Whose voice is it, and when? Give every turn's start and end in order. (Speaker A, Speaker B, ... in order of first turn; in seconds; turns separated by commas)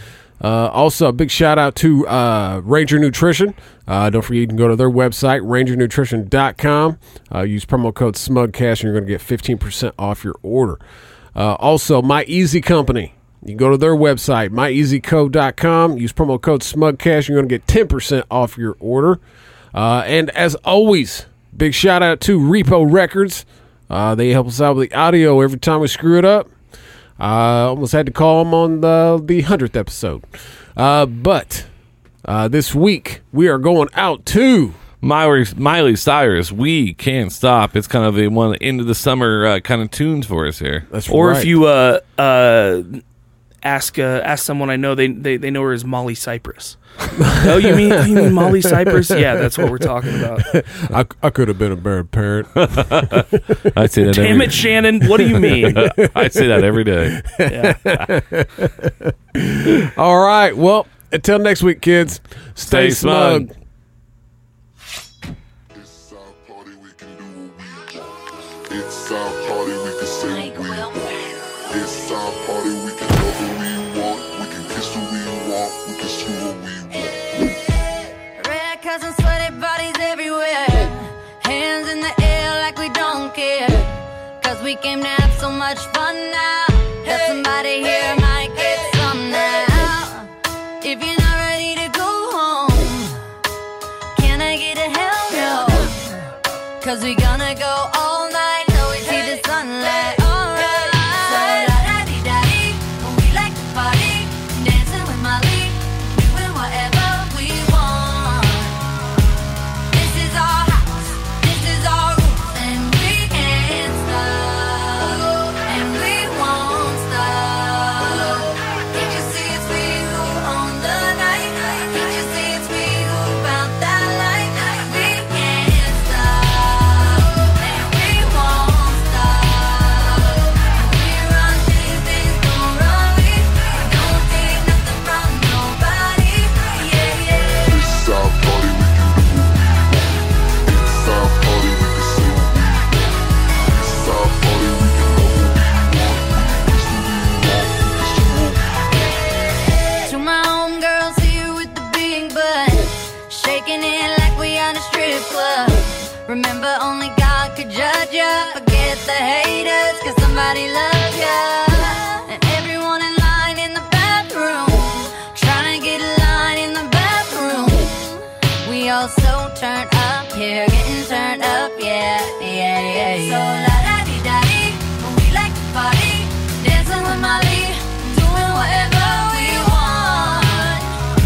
Speaker A: 0.4-10.8, Speaker A: 11.3-19.2, Speaker A: 19.7-26.5, Speaker A: 27.2-30.2, Speaker A: 30.8-31.7, Speaker A: 32.2-34.8, Speaker B: 35.0-40.9, Speaker A: 40.9-41.6, Speaker C: 41.1-43.0, Speaker C: 43.6-46.8, Speaker A: 47.2-53.4, Speaker C: 47.4-50.5, Speaker B: 52.6-54.7, Speaker C: 54.1-55.8, Speaker A: 55.2-63.5, Speaker B: 55.6-57.2, Speaker C: 57.5-57.8, Speaker B: 62.7-63.5, Speaker D: 65.7-68.2, Speaker D: 68.7-71.2, Speaker E: 70.3-71.1, Speaker D: 71.7-77.5, Speaker E: 78.3-90.3, Speaker E: 90.8-93.2, Speaker E: 94.2-96.2, Speaker E: 96.8-108.9, Speaker E: 109.9-137.8, Speaker D: 137.7-148.8, Speaker E: 150.0-181.0